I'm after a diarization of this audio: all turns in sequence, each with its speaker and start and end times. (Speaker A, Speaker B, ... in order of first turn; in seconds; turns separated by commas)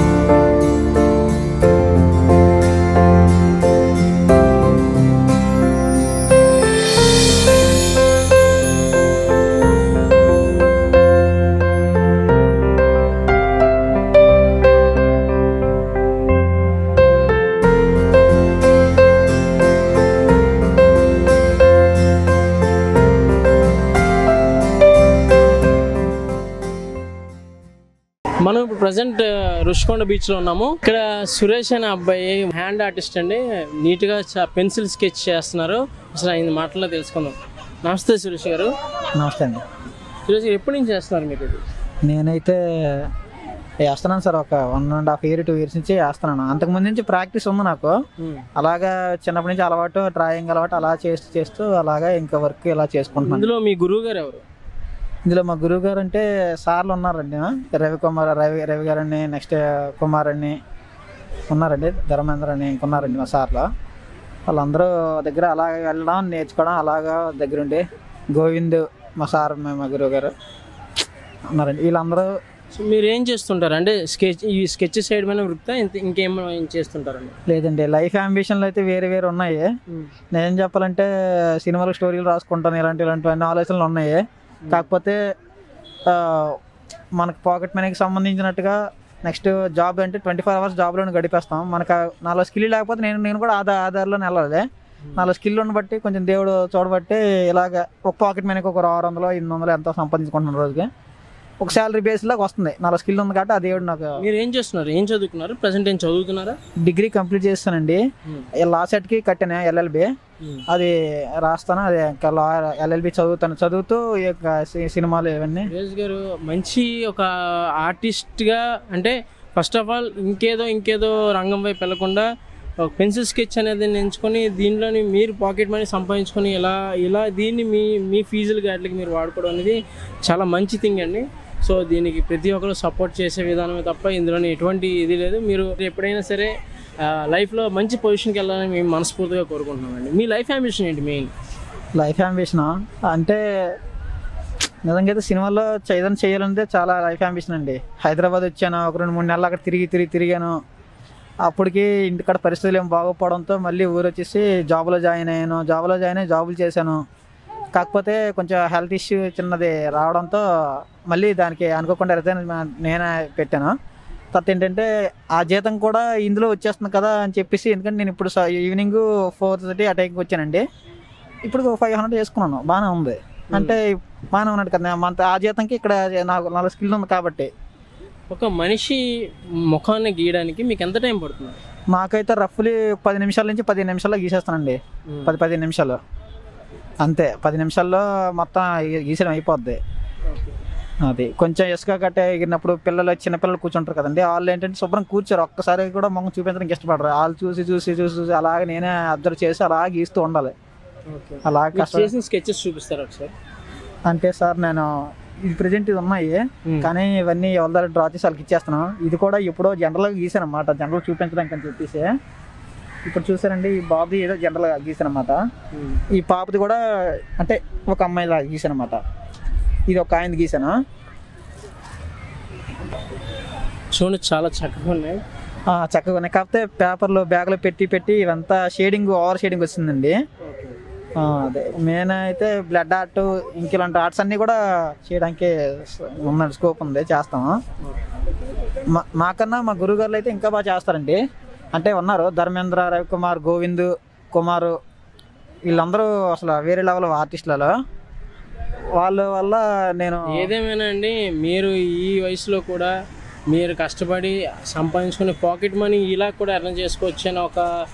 Speaker A: 28.4-38.7, Speaker B: 39.2-39.6, Speaker A: 40.3-41.6, Speaker B: 42.0-43.1, Speaker B: 43.9-48.0, Speaker A: 48.2-48.5, Speaker B: 48.5-53.5, Speaker A: 53.2-54.4, Speaker B: 55.3-60.6, Speaker B: 61.5-63.7, Speaker B: 64.5-70.3, Speaker B: 71.5-72.3, Speaker A: 72.7-77.4, Speaker B: 77.5-79.7, Speaker B: 80.3-85.2, Speaker B: 86.1-86.6, Speaker B: 87.2-94.7, Speaker B: 95.2-100.9, Speaker B: 101.6-104.2, Speaker A: 104.2-106.6, Speaker B: 106.8-108.0, Speaker B: 108.6-110.1, Speaker B: 110.7-115.7, Speaker A: 115.7-122.2, Speaker A: 122.8-136.5, Speaker A: 137.1-141.3, Speaker B: 142.0-143.4, Speaker B: 144.9-150.6, Speaker B: 151.5-157.0, Speaker B: 157.8-163.7, Speaker B: 164.3-170.6, Speaker B: 171.5-177.5, Speaker A: 178.3-179.0, Speaker A: 179.7-181.6, Speaker B: 181.9-186.0, Speaker A: 185.1-185.4, Speaker B: 187.0-189.8, Speaker A: 190.3-190.6, Speaker B: 191.0-200.5, Speaker A: 201.1-203.3, Speaker B: 201.4-202.1, Speaker B: 204.1-212.1, Speaker A: 206.7-206.9, Speaker B: 213.1-215.4, Speaker A: 215.7-216.0, Speaker B: 216.1-216.8, Speaker B: 217.4-219.0, Speaker B: 219.9-220.7, Speaker A: 223.9-225.2, Speaker B: 225.7-230.2, Speaker A: 230.4-230.8, Speaker B: 231.2-237.6, Speaker B: 238.9-241.2, Speaker B: 241.7-244.8, Speaker B: 245.7-247.7, Speaker B: 249.0-250.5, Speaker A: 250.3-252.9, Speaker A: 253.5-257.7